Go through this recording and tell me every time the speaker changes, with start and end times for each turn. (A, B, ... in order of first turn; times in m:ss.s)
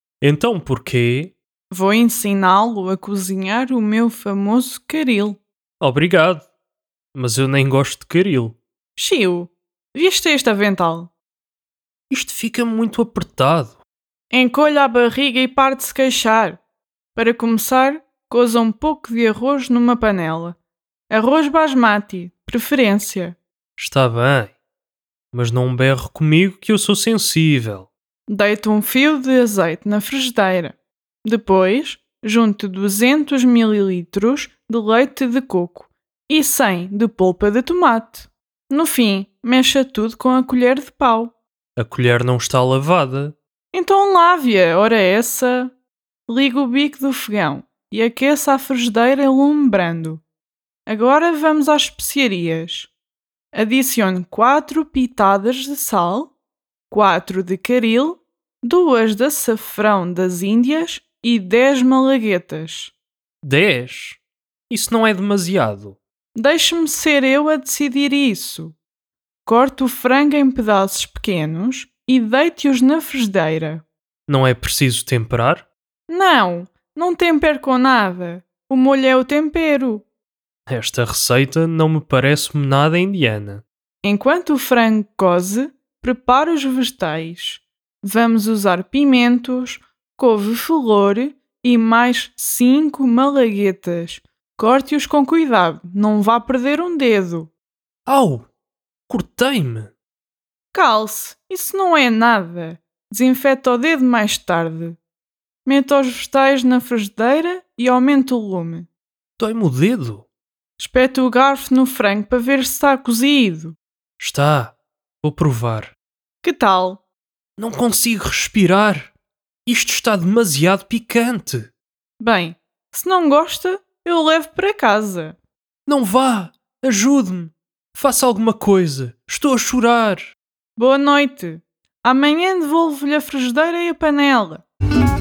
0:00.2-0:01.3 A
0:01.7-0:05.4 B
0:05.8-0:06.4 A
0:07.1-0:08.6 A
0:09.0-0:11.1 B
0:12.1-0:13.8 A
0:14.3-0:16.6 B
0:17.1-0:20.6 B
0:21.1-0:23.4 B
0:23.8-0:24.5 A
0:25.3-0:27.9 A
0:28.3-0:41.3 B
0:41.8-0:43.3 A
0:43.7-0:45.7 B
0:46.3-0:50.2 B
0:50.9-0:52.9 B
0:53.5-0:56.3 B
0:56.9-1:02.9 B
1:03.4-1:06.0 A
1:06.3-1:08.7 B
1:09.4-1:13.8 B
1:14.3-1:15.7 A
1:16.1-1:20.0 B
1:20.7-1:23.6 A
1:24.0-1:37.5 B
1:38.0-1:38.4 A
1:39.1-1:39.9 A
1:40.7-1:45.0 B
1:45.6-1:48.9 B
1:49.4-1:50.2 A
1:50.8-1:53.8 B
1:54.2-1:55.9 A
1:56.4-1:57.0 B
1:57.6-1:59.1 A
1:59.6-2:01.7 A
2:02.2-2:05.4 B
2:05.8-2:10.3 A
2:10.8-2:14.6 B